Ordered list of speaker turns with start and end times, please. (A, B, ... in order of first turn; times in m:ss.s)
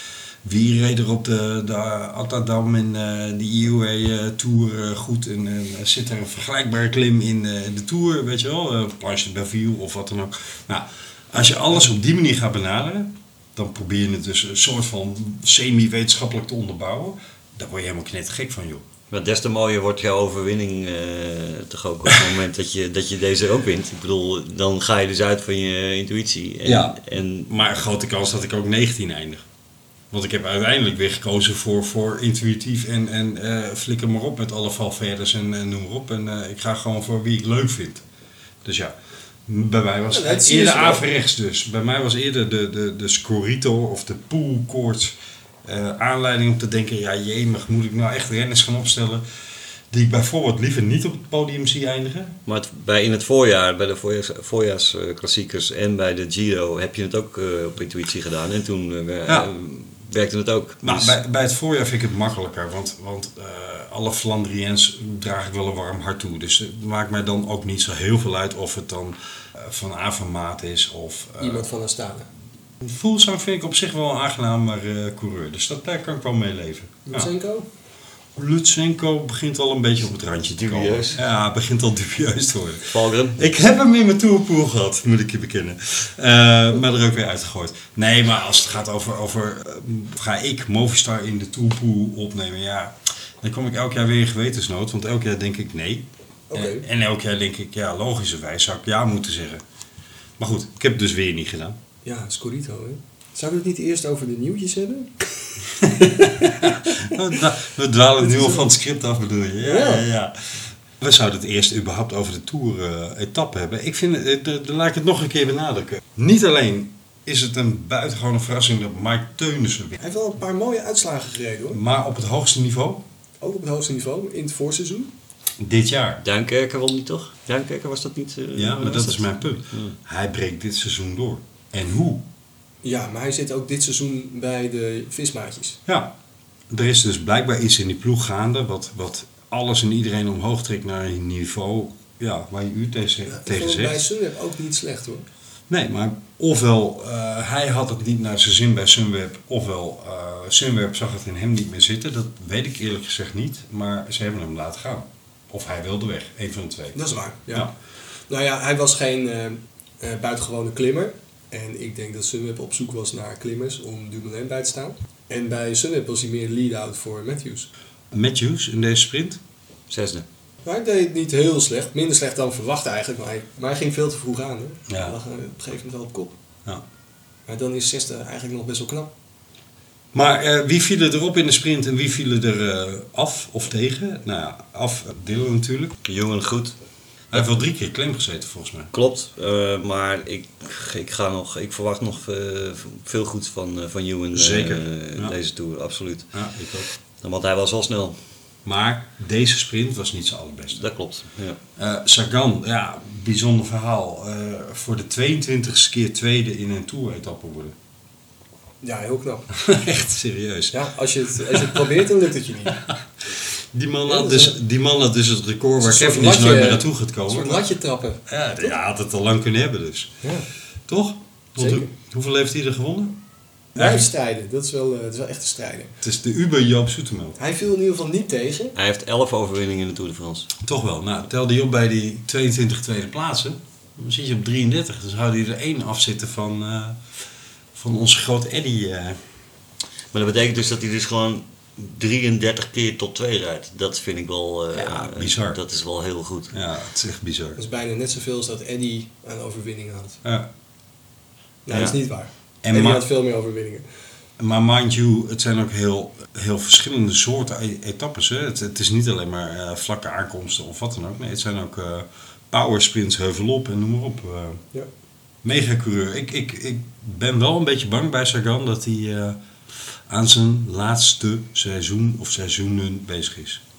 0:00.4-0:18.8 A
0:19.1-0:27.5 B
0:26.6-0:29.5 A
0:30.1-0:38.0 A
0:38.6-0:49.2 A
0:40.1-0:41.0 C
0:49.9-0:52.4 A
0:52.5-1:01.2 B
1:00.8-1:11.7 A
1:11.4-1:12.3 C
1:12.8-1:17.3 A
1:17.1-1:17.7 C
1:18.4-1:39.6 A
1:20.5-1:21.2 B
1:22.9-1:23.4 B
1:36.5-1:36.8 C
1:40.4-1:41.8 A
1:42.0-1:45.1 C
1:45.8-2:00.0 A
1:48.2-1:48.7 C
1:49.6-1:50.0 C
2:00.0-2:01.8 C
2:01.7-2:03.0 A
2:03.4-2:05.1 C
2:05.6-2:06.2 A
2:06.2-2:10.0 B
2:08.6-2:12.2 A
2:12.8-2:15.8 C
2:15.9-2:16.1 A
2:16.7-2:24.1 A
2:23.3-2:25.3 C
2:25.7-2:37.7 A
2:36.9-2:37.7 C
2:38.3-2:47.7 C
2:48.1-2:49.4 A
2:49.9-2:50.2 B
2:50.6-2:56.4 C
2:54.9-2:55.2 A
2:57.5-2:59.1 C
3:00.1-3:06.0 A
3:06.0-3:06.8 B
3:07.3-3:08.9 A
3:08.9-3:16.3 B
3:14.3-3:15.4 A
3:16.3-3:16.9 A
3:17.2-3:18.2 B
3:18.6-3:20.8 A
3:20.8-3:21.6 B
3:21.8-3:27.8 A
3:28.8-3:29.5 C
3:29.6-3:32.0 A
3:30.7-3:32.8 C
3:32.8-3:37.7 A
3:34.1-3:34.6 C
3:35.8-3:38.8 C
3:38.3-3:40.2 A
3:40.9-3:43.2 A
3:41.6-3:41.9 C
3:43.8-3:44.1 A
3:43.8-3:45.9 C
3:46.0-3:47.4 A
3:47.4-3:48.8 C
3:48.8-3:50.5 B
3:50.6-3:57.0 A
3:57.7-3:59.2 A
4:00.1-4:06.5 B
4:04.7-4:05.6 A
4:06.5-4:07.6 A
4:07.6-4:10.2 C
4:11.7-4:13.8 C
4:11.7-4:12.0 B
4:12.6-4:13.1 A
4:14.4-4:24.6 A
4:25.4-4:29.4 A
4:30.1-4:33.6 A